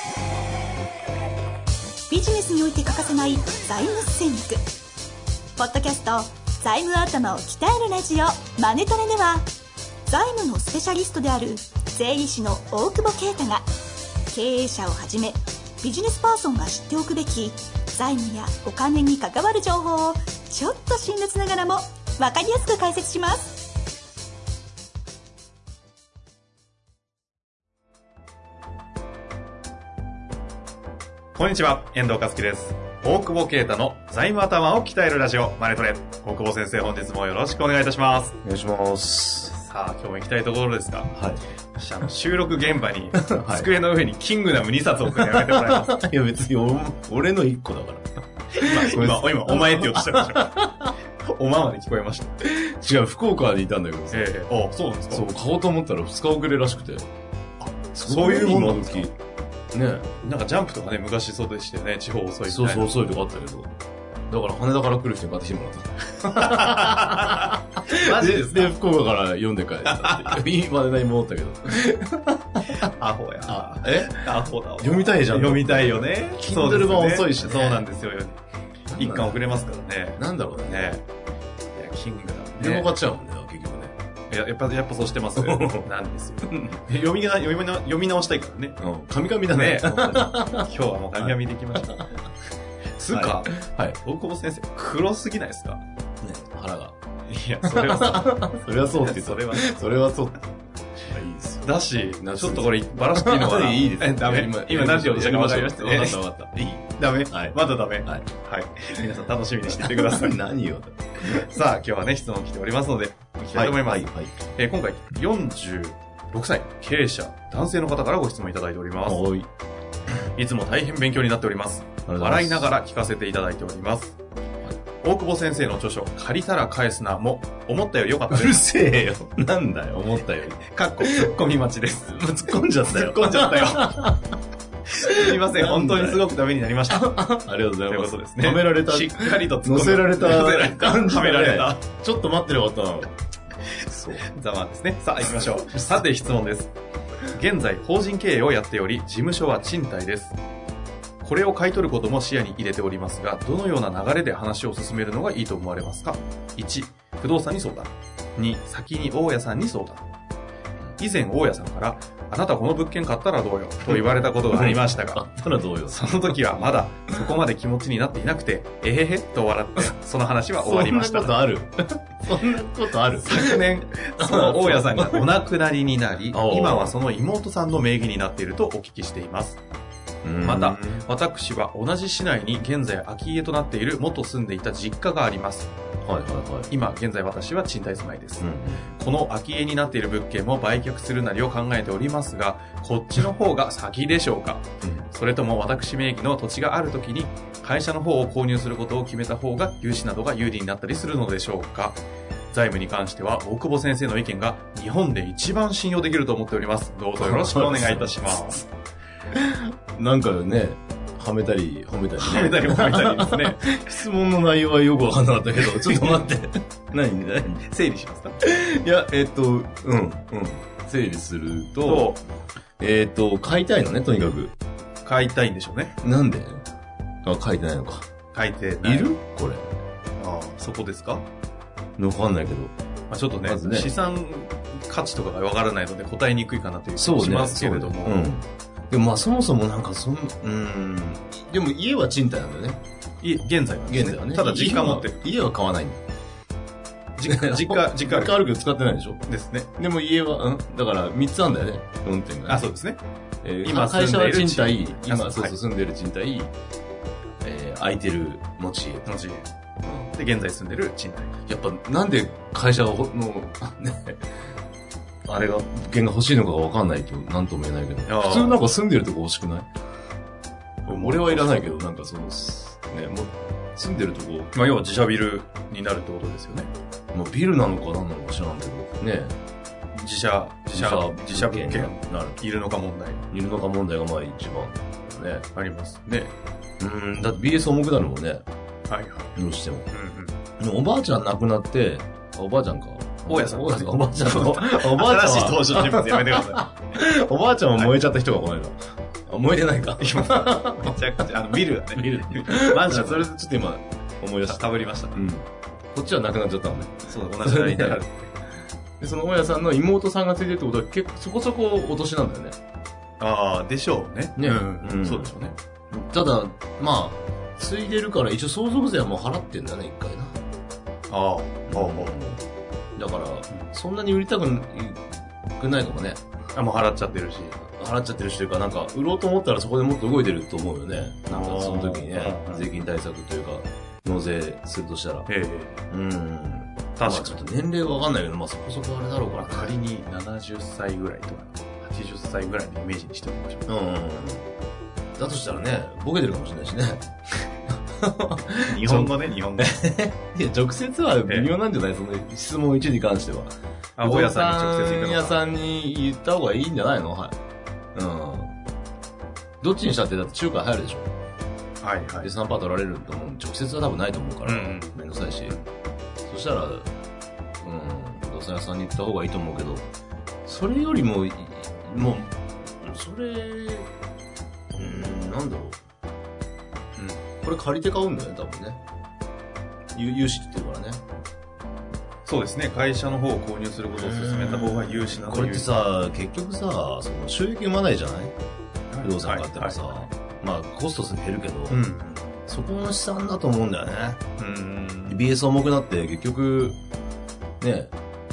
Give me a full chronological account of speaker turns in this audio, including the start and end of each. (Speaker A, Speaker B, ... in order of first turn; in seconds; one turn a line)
Speaker A: 2.1-4.6
Speaker A: 5.5-9.5
Speaker A: 10.1-13.6
Speaker A: 14.3-23.7
Speaker B: 31.3-38.4
Speaker C: 38.4-39.5
Speaker B: 39.4-41.1
Speaker C: 41.1-41.4
Speaker B: 41.8-46.0
Speaker C: 43.2-43.7
Speaker C: 45.0-50.9
Speaker B: 48.5-50.6
Speaker B: 51.2-52.4
Speaker C: 52.4-54.3
Speaker B: 54.1-55.3
Speaker C: 55.1-57.1
Speaker B: 57.6-59.1
Speaker C: 57.9-59.1
Speaker C: 59.7-60.1
Speaker B: 60.2-62.9
Speaker C: 62.5-63.7
Speaker C: 64.3-72.9
Speaker B: 66.2-68.7
Speaker B: 69.8-70.4
Speaker B: 72.8-78.4
Speaker C: 73.5-77.9
Speaker C: 78.9-79.4
Speaker B: 79.0-81.0
Speaker C: 80.1-80.9
Speaker B: 81.7-82.9
Speaker C: 82.6-83.9
Speaker B: 84.3-88.8
Speaker C: 85.4-85.9
Speaker C: 86.5-86.8
Speaker C: 88.8-92.1
Speaker B: 89.5-92.0
Speaker B: 93.0-95.8
Speaker C: 93.1-94.0
Speaker C: 96.2-96.9
Speaker B: 97.3-99.7
Speaker C: 97.6-100.4
Speaker C: 101.0-108.3
Speaker B: 101.6-106.2
Speaker B: 107.0-110.3
Speaker C: 109.6-111.5
Speaker B: 111.2-119.2
Speaker C: 113.5-114.3
Speaker C: 119.0-119.5
Speaker B: 120.3-124.2
Speaker C: 122.0-122.7
Speaker B: 125.0-128.6
Speaker C: 128.3-131.3
Speaker B: 130.7-134.1
Speaker C: 132.1-134.2
Speaker B: 134.9-137.2
Speaker C: 135.0-136.2
Speaker C: 136.9-143.1
Speaker B: 137.9-141.8
Speaker C: 143.9-144.2
Speaker B: 144.2-146.7
Speaker B: 147.3-150.4
Speaker B: 151.2-160.1
Speaker B: 161.0-165.3
Speaker C: 163.9-166.3
Speaker B: 165.9-171.4
Speaker C: 170.6-173.7
Speaker B: 173.2-179.6
Speaker C: 174.2-175.3
Speaker C: 176.3-176.9
Speaker C: 180.2-181.1
Speaker B: 180.4-185.7
Speaker C: 186.0-186.7
Speaker B: 186.7-208.6
Speaker C: 188.4-188.9
Speaker C: 207.2-208.5
Speaker C: 209.3-217.6
Speaker B: 212.2-213.9
Speaker B: 215.7-216.1
Speaker B: 217.6-218.4
Speaker C: 218.4-222.1
Speaker B: 221.8-222.2
Speaker C: 222.8-224.5
Speaker B: 225.0-225.9
Speaker C: 226.0-226.6
Speaker C: 227.2-228.1
Speaker B: 228.3-229.1
Speaker C: 228.8-229.7
Speaker B: 230.2-231.2
Speaker C: 232.0-232.7
Speaker B: 233.1-238.3
Speaker C: 233.4-233.9
Speaker C: 236.9-242.8
Speaker B: 243.2-245.2
Speaker C: 243.8-246.0
Speaker B: 247.2-248.4
Speaker C: 247.3-249.2
Speaker B: 249.3-249.7
Speaker C: 249.8-252.6
Speaker B: 252.5-253.0
Speaker C: 253.4-256.5
Speaker B: 253.6-255.6
Speaker C: 257.4-259.1
Speaker B: 259.1-259.5
Speaker C: 259.8-260.1
Speaker B: 260.1-261.3
Speaker C: 261.5-264.2
Speaker C: 265.3-269.6
Speaker B: 268.1-268.6
Speaker C: 270.8-274.5
Speaker B: 270.9-271.9
Speaker B: 274.5-276.7
Speaker C: 277.1-279.4
Speaker B: 279.9-283.2
Speaker C: 280.7-282.5
Speaker C: 283.3-285.5
Speaker B: 285.5-286.3
Speaker C: 286.8-288.4
Speaker B: 288.9-289.4
Speaker C: 289.4-289.9
Speaker B: 289.9-290.4
Speaker C: 290.6-301.0
Speaker B: 293.3-296.8
Speaker B: 300.0-303.3
Speaker C: 301.9-308.0
Speaker B: 304.4-305.2
Speaker B: 307.1-308.3
Speaker C: 309.0-312.6
Speaker B: 313.2-315.5
Speaker C: 314.4-315.3
Speaker C: 315.9-320.4
Speaker B: 321.1-322.1
Speaker C: 321.7-322.4
Speaker C: 322.9-326.2
Speaker B: 326.5-327.6
Speaker C: 327.6-335.3
Speaker B: 331.3-332.8
Speaker B: 335.3-335.8
Speaker C: 335.9-339.8
Speaker B: 337.0-337.4
Speaker B: 339.4-343.7
Speaker C: 343.7-344.4
Speaker C: 345.1-347.1
Speaker C: 347.9-357.4
Speaker B: 348.6-349.8
Speaker B: 354.0-355.4
Speaker C: 357.9-358.5
Speaker C: 359.6-361.1
Speaker B: 361.8-362.3
Speaker C: 362.2-365.6
Speaker B: 364.4-365.7
Speaker C: 366.3-366.9
Speaker C: 367.6-369.9
Speaker C: 370.4-373.9
Speaker C: 374.7-375.8
Speaker B: 376.9-377.2
Speaker C: 377.4-378.8
Speaker C: 379.9-381.0
Speaker B: 382.2-385.7
Speaker C: 383.9-388.3
Speaker B: 388.9-390.1
Speaker C: 389.0-391.8
Speaker B: 391.7-392.4
Speaker C: 392.5-394.2
Speaker B: 394.4-395.2
Speaker C: 395.1-396.8
Speaker C: 397.6-397.9